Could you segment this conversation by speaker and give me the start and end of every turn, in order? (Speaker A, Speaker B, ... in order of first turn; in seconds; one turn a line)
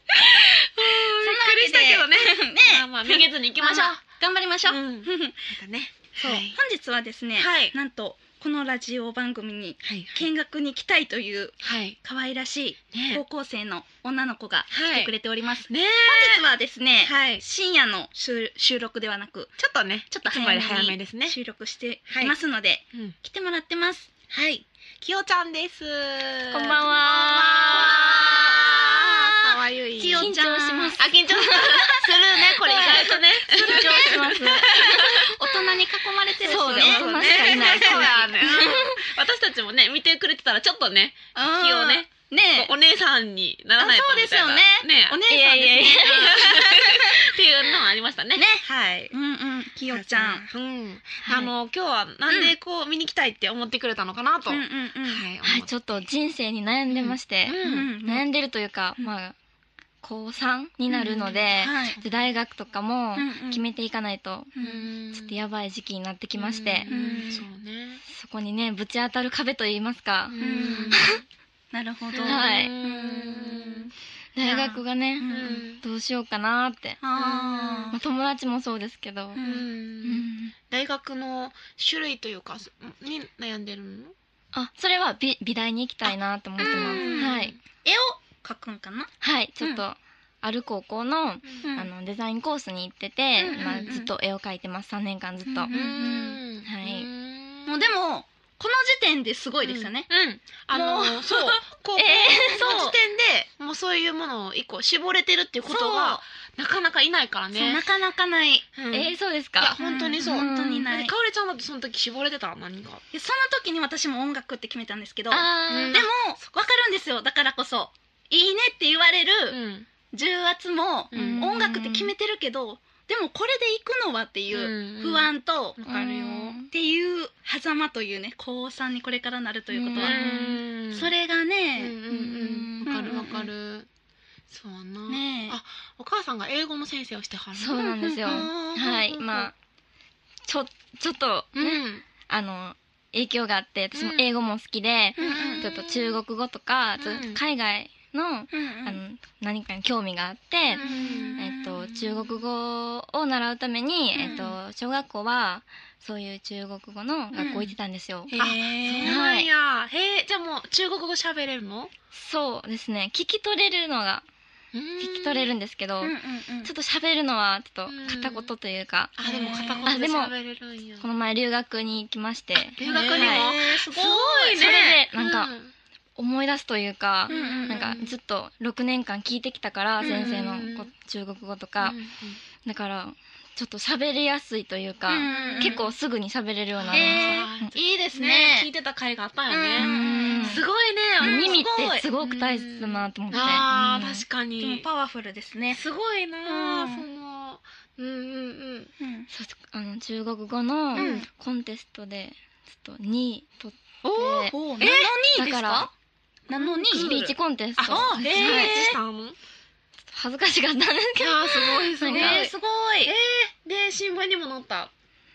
Speaker A: 0.1-5.4
Speaker B: 0.2-4.0
Speaker B: 4.7-6.6
Speaker A: 6.2-19.6
Speaker B: 7.4-7.7
Speaker B: 9.8-10.3
Speaker B: 11.6-12.0
Speaker B: 12.9-13.2
Speaker B: 14.7-15.1
Speaker B: 15.7-16.4
Speaker B: 17.0-17.4
Speaker B: 19.6-21.4
Speaker A: 20.1-24.1
Speaker B: 22.1-22.4
Speaker B: 24.3-30.3
Speaker C: 26.5-28.1
Speaker A: 27.7-29.2
Speaker A: 30.0-38.8
Speaker C: 30.1-31.0
Speaker B: 31.0-35.3
Speaker C: 33.5-35.2
Speaker B: 36.4-45.3
Speaker C: 36.4-38.9
Speaker A: 41.3-42.7
Speaker A: 43.8-47.2
Speaker C: 45.3-46.7
Speaker B: 45.9-49.1
Speaker A: 48.4-50.4
Speaker B: 49.9-55.7
Speaker C: 51.2-51.5
Speaker A: 52.3-52.5
Speaker A: 54.5-55.2
Speaker C: 55.4-59.3
Speaker B: 56.9-57.9
Speaker A: 57.6-58.3
Speaker C: 60.0-64.5
Speaker A: 60.9-62.0
Speaker A: 63.1-63.6
Speaker A: 64.5-64.8
Speaker B: 64.6-65.4
Speaker C: 65.1-67.0
Speaker B: 66.3-68.0
Speaker A: 66.9-67.4
Speaker C: 68.1-71.2
Speaker B: 70.3-71.2
Speaker A: 70.4-71.1
Speaker A: 71.7-73.9
Speaker B: 72.1-73.9
Speaker C: 72.2-72.8
Speaker C: 74.3-77.0
Speaker A: 74.4-75.6
Speaker B: 75.3-75.8
Speaker A: 77.0-78.0
Speaker B: 77.2-78.0
Speaker C: 77.9-79.4
Speaker A: 79.3-79.7
Speaker B: 79.4-84.1
Speaker C: 80.0-80.5
Speaker C: 84.5-87.5
Speaker B: 86.6-87.6
Speaker A: 86.6-89.8
Speaker C: 89.2-95.7
Speaker A: 91.6-91.9
Speaker A: 93.4-94.1
Speaker B: 93.5-94.0
Speaker A: 95.5-96.4
Speaker B: 95.7-97.9
Speaker C: 96.6-97.1
Speaker A: 97.7-100.1
Speaker B: 99.6-107.8
Speaker A: 100.7-101.6
Speaker C: 102.0-102.8
Speaker A: 102.1-103.0
Speaker A: 105.7-106.2
Speaker A: 107.5-108.7
Speaker B: 108.7-113.0
Speaker C: 108.9-110.9
Speaker A: 109.8-111.1
Speaker A: 113.1-119.6
Speaker C: 115.3-116.0
Speaker B: 115.7-116.1
Speaker B: 119.5-119.9
Speaker A: 120.1-125.8
Speaker B: 121.1-121.6
Speaker C: 121.2-122.1
Speaker B: 124.5-126.6
Speaker C: 125.8-126.7
Speaker A: 126.7-132.0
Speaker C: 129.7-130.6
Speaker B: 130.0-131.1
Speaker B: 131.8-133.9
Speaker C: 132.1-133.3
Speaker A: 132.8-133.4
Speaker B: 134.5-139.5
Speaker A: 135.1-135.6
Speaker C: 137.6-139.5
Speaker A: 137.9-138.5
Speaker C: 140.4-158.3
Speaker B: 141.6-142.0
Speaker B: 143.9-144.2
Speaker A: 145.2-145.7
Speaker B: 145.2-146.2
Speaker B: 147.0-147.4
Speaker A: 148.5-149.0
Speaker B: 150.7-151.5
Speaker A: 150.8-152.3
Speaker A: 154.2-154.4
Speaker B: 154.2-154.6
Speaker A: 157.3-157.7
Speaker A: 158.3-159.2
Speaker B: 158.3-161.9
Speaker C: 159.0-159.5
Speaker C: 162.1-164.2
Speaker B: 164.7-165.5
Speaker C: 165.0-170.3
Speaker A: 166.0-166.7
Speaker B: 167.9-168.5
Speaker B: 169.2-171.0
Speaker A: 169.2-169.9
Speaker C: 171.0-173.5
Speaker B: 172.7-175.7
Speaker A: 172.8-174.6
Speaker C: 174.5-175.5
Speaker C: 176.2-182.0
Speaker B: 177.3-178.1
Speaker A: 177.3-177.8
Speaker B: 180.0-180.9
Speaker B: 181.8-182.4
Speaker C: 182.6-187.7
Speaker A: 185.1-185.8
Speaker B: 185.1-185.9
Speaker B: 186.8-191.6
Speaker A: 186.9-188.7
Speaker A: 189.5-190.6
Speaker C: 189.8-190.6
Speaker A: 191.2-192.1
Speaker C: 191.2-194.2
Speaker B: 192.2-194.9
Speaker A: 194.6-195.8
Speaker B: 195.7-198.9
Speaker A: 196.4-197.0
Speaker A: 199.0-199.3
Speaker C: 199.3-205.9
Speaker B: 200.9-201.2
Speaker A: 200.9-201.3
Speaker A: 204.1-205.9
Speaker B: 204.2-205.1
Speaker A: 206.5-207.2
Speaker B: 206.5-209.3
Speaker C: 206.9-208.9
Speaker A: 207.8-209.0
Speaker C: 210.1-212.5
Speaker B: 211.2-212.5
Speaker A: 212.1-213.1
Speaker B: 213.0-214.9